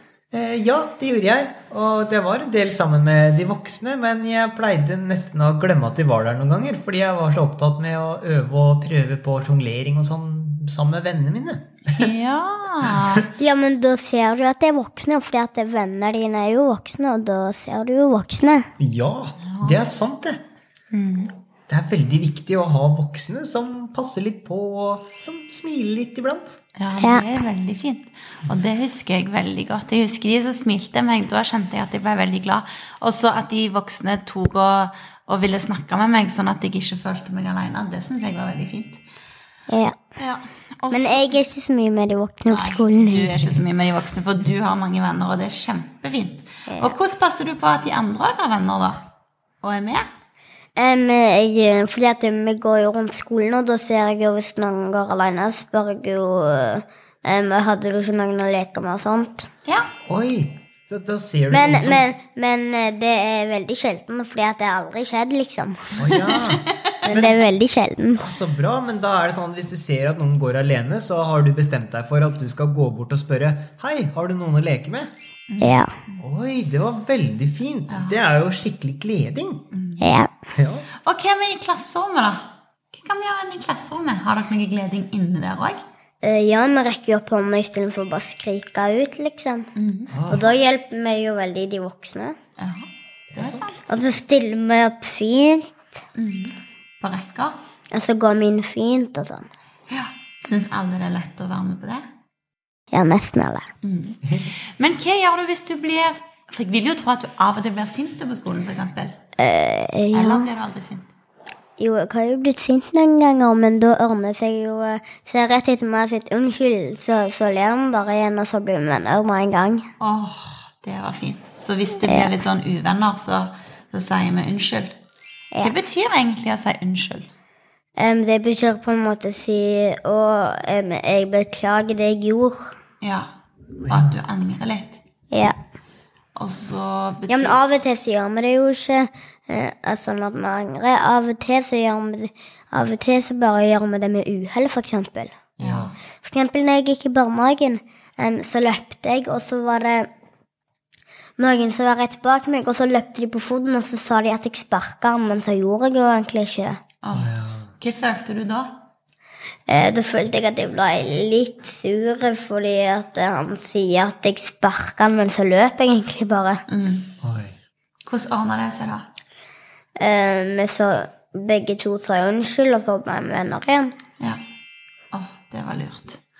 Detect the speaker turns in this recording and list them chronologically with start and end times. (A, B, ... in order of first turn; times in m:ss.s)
0:00.3-0:12.1 A
0:11.9-0:13.3 B
0:13.4-0:18.7 C
0:18.8-0:20.4 A
0:19.4-0:19.9 B
0:20.9-0:21.3 B
0:21.7-0:26.6 A
0:26.8-0:39.0 B
0:27.0-0:27.3 C
0:39.7-0:40.0 C
0:40.2-0:41.4 B
0:40.9-0:43.5 C
0:42.5-0:49.0 B
0:46.7-0:47.0 C
0:49.6-0:50.1 B
0:50.8-0:59.5 C
0:59.7-0:59.9 B
1:00.1-1:02.1 A
1:01.5-1:06.2 C
1:06.0-1:07.4 A
1:06.1-1:06.7 B
1:07.0-1:08.2 C
1:08.2-1:15.1 A
1:15.5-1:16.2 B
1:15.6-1:15.9 C
1:16.2-1:19.6 A
1:17.9-1:18.2 B
1:19.7-1:20.2 B
1:20.0-1:20.3 C
1:20.6-1:20.9 A
1:21.0-1:25.8 B
1:26.2-1:29.7 C
1:29.8-1:30.2 B
1:30.1-1:30.4 A
1:30.3-1:32.4 C
1:32.6-1:34.0 B
1:33.3-1:33.7 A
1:33.9-1:35.7 C
1:36.2-1:37.6 B
1:37.9-1:39.5 C
1:39.9-1:42.0 B
1:42.9-1:43.7 C
1:43.8-1:49.2 B
1:49.4-1:50.5 C
1:50.1-1:51.1 B
1:51.8-1:59.8 C
2:00.0-2:04.9 B
2:02.0-2:02.3 C
2:05.6-2:07.3 B
2:08.0-2:12.8 C
2:13.0-2:13.3 B
2:13.9-2:14.2 A
2:13.9-2:15.0 B
2:16.4-2:17.6 B
2:17.3-2:25.3 C
2:25.6-2:26.0 B
2:25.6-2:25.9 A
2:26.2-2:30.1 C
2:31.4-2:36.8 C
2:37.0-2:38.8 B
2:37.1-2:37.7 A
2:39.7-2:46.6 C
2:46.7-2:47.1 B
2:47.2-2:47.6 A
2:48.1-2:49.0 B
2:50.0-2:53.9 C
2:55.1-2:56.2 B